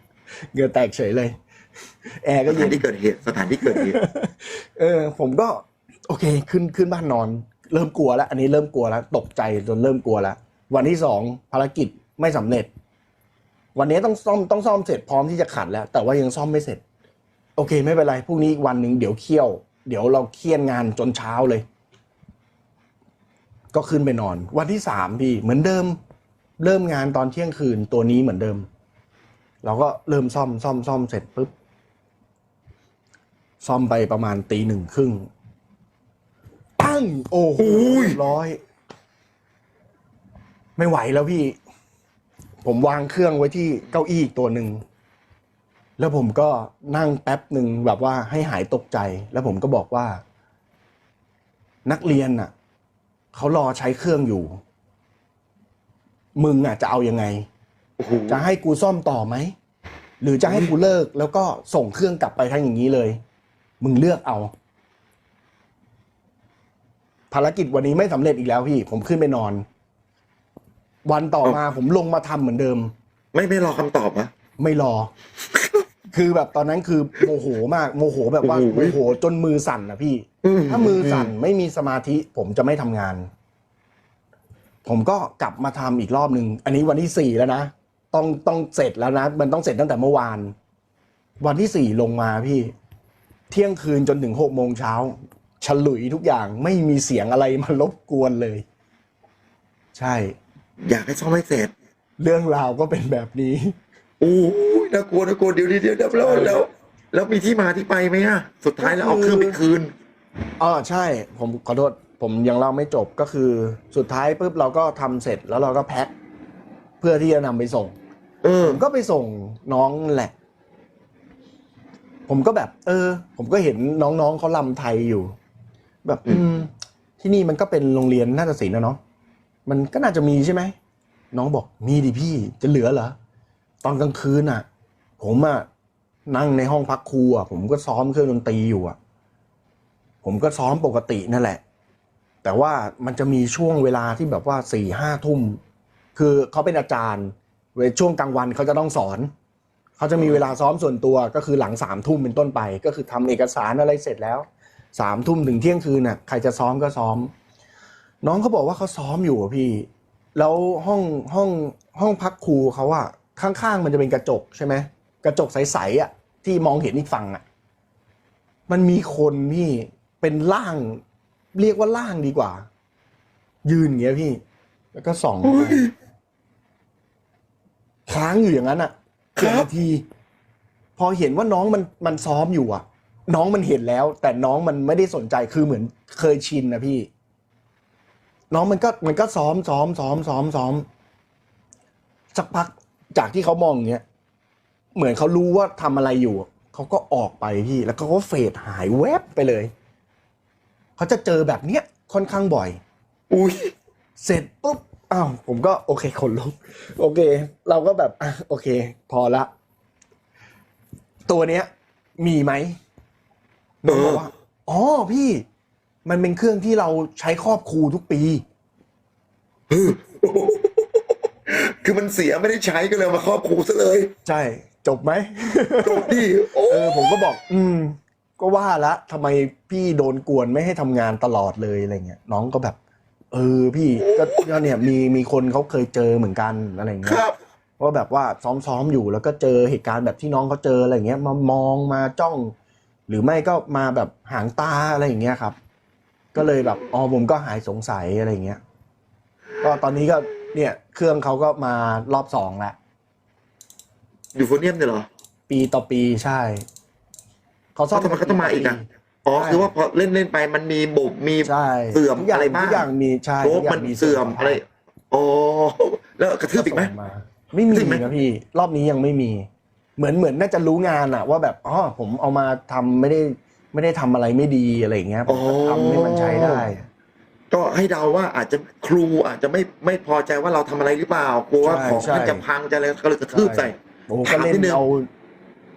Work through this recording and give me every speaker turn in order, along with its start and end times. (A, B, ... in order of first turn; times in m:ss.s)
0:00.5-0:01.4 A
0:02.2-0:02.8 A
0:02.5-0:04.0 B
0:03.7-0:12.7 A
0:13.8-0:16.8 A
0:17.6-0:21.6 A
0:23.7-0:26.0 A
0:26.6-0:28.7 A
0:29.6-0:31.5 A
0:33.6-0:35.3 A
0:36.8-0:38.6 A
0:37.6-0:38.2 B
0:40.8-0:41.6 A
0:42.6-0:44.8 A
0:46.0-0:50.2 A
0:51.9-0:52.5 A
0:53.3-0:54.6 A
0:56.4-0:57.5 A
0:58.0-0:58.4 B
0:58.3-0:59.6 A
1:00.2-1:03.2 A
1:03.8-1:04.5 A
1:07.3-1:09.6 A
1:11.1-1:12.9 A
1:13.3-1:14.3 B
1:14.6-1:15.1 A
1:15.5-1:15.8 B
1:16.1-1:23.3 A
1:18.4-1:19.0 B
1:20.4-1:21.3 B
1:24.8-1:30.5 A
1:31.4-1:32.7 A
1:33.5-1:38.6 A
1:40.0-1:40.4 A
1:40.9-1:41.7 B
1:42.2-1:43.8 A
1:44.2-1:49.9 B
1:46.2-1:46.6 A
1:48.8-1:49.6 A
1:50.6-1:56.1 A
1:57.0-1:58.0 A
1:58.4-1:58.8 B
1:58.6-2:00.3 A
2:02.3-2:05.4 A
2:06.0-2:06.7 A
2:07.2-2:09.0 A
2:09.7-2:10.8 A
2:11.3-2:13.2 A
2:13.8-2:14.7 A
2:15.2-2:15.7 A
2:16.3-2:19.0 A
2:20.2-2:21.6 A
2:22.4-2:25.6 A
2:26.2-2:29.3 A
2:30.0-2:37.3 A
2:38.2-2:47.4 A
2:48.7-2:51.0 A
2:51.6-2:52.7 A
2:53.6-2:54.4 A
2:54.9-2:55.8 A
2:55.4-2:55.9 B
2:58.1-3:00.0 A
2:59.4-2:59.7 B
3:01.0-3:07.1 A
3:08.5-3:10.9 A
3:12.3-3:14.0 A
3:15.0-3:19.7 A
3:21.0-3:22.8 A
3:23.3-3:23.7 B
3:24.2-3:29.5 A
3:31.3-3:32.8 A
3:33.8-3:35.4 A
3:33.9-3:34.3 B
3:36.1-3:38.4 A
3:39.7-3:44.1 B
3:44.3-3:52.8 A
3:45.8-3:47.2 B
3:53.3-3:57.2 A
3:54.0-3:54.7 B
3:57.0-3:57.4 B
3:57.8-4:02.5 A
4:03.1-4:05.6 A
4:06.3-4:08.6 A
4:09.6-4:12.8 A
4:14.4-4:15.1 B
4:15.5-4:16.6 A
4:17.8-4:19.7 A
4:17.9-4:22.9 B
4:21.4-4:24.6 A
4:23.4-4:26.9 B
4:26.6-4:36.9 A
4:27.7-4:28.0 B
4:35.3-4:36.7 B
4:37.5-4:44.8 B
4:41.6-4:42.4 A
4:43.3-4:45.1 A